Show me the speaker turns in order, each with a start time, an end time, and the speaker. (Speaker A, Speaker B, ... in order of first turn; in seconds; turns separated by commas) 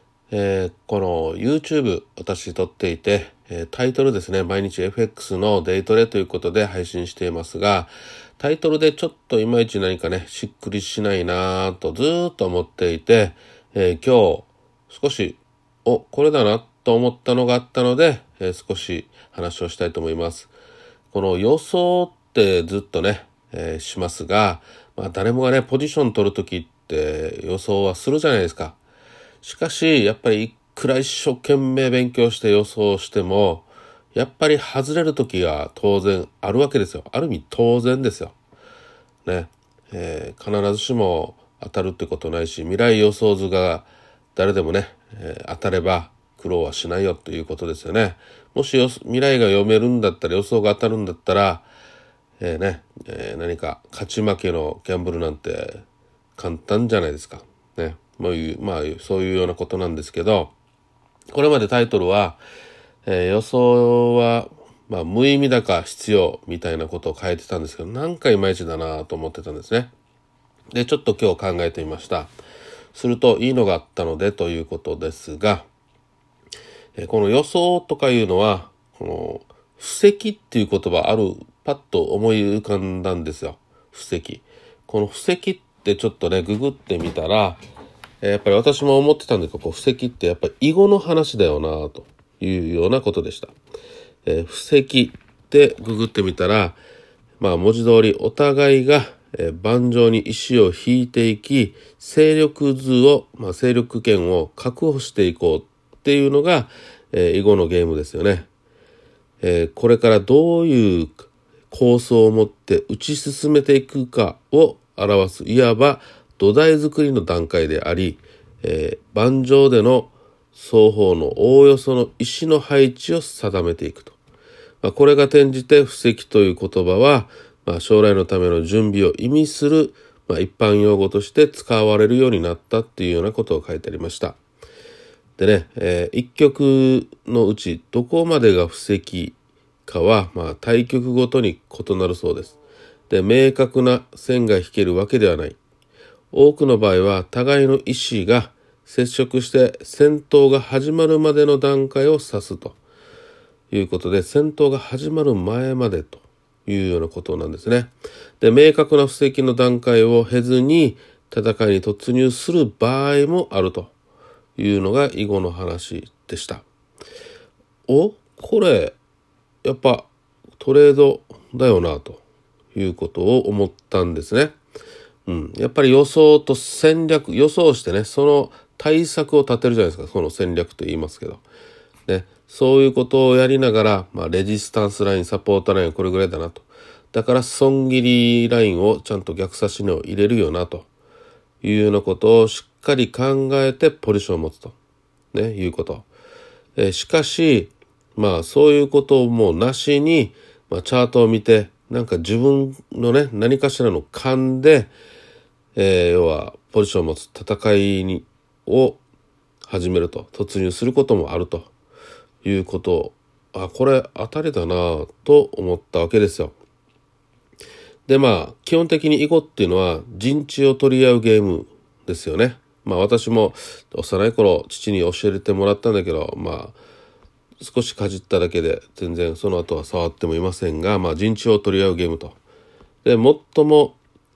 Speaker A: 0.3-20.5, Speaker A: 21.1-28.8, Speaker A: 29.4-38.4, Speaker A: 39.2-51.7, Speaker A: 52.4-55.8, Speaker A: 56.4-60.5, Speaker A: 61.3-62.4, Speaker A: 63.0-69.9, Speaker A: 70.7-72.3, Speaker A: 72.9-75.7, Speaker A: 77.0-87.6, Speaker A: 88.2-93.5, Speaker A: 94.2-96.8, Speaker A: 97.4-108.5, Speaker A: 109.4-124.2, Speaker A: 124.8-134.4, Speaker A: 135.4-142.5, Speaker A: 143.1-145.6, Speaker A: 146.3-152.8, Speaker A: 153.7-163.9, Speaker A: 164.6-166.6, Speaker A: 167.9-169.0, Speaker A: 169.6-172.2, Speaker A: 172.7-174.6, Speaker A: 175.3-181.4, Speaker A: 182.1-190.9, Speaker A: 191.6-194.7, Speaker A: 195.3-196.1, Speaker A: 196.8-204.9, Speaker A: 205.8-209.0, Speaker A: 209.7-211.7, Speaker A: 212.4-216.5, Speaker A: 218.1-226.8, Speaker A: 227.6-232.4, Speaker A: 233.0-234.0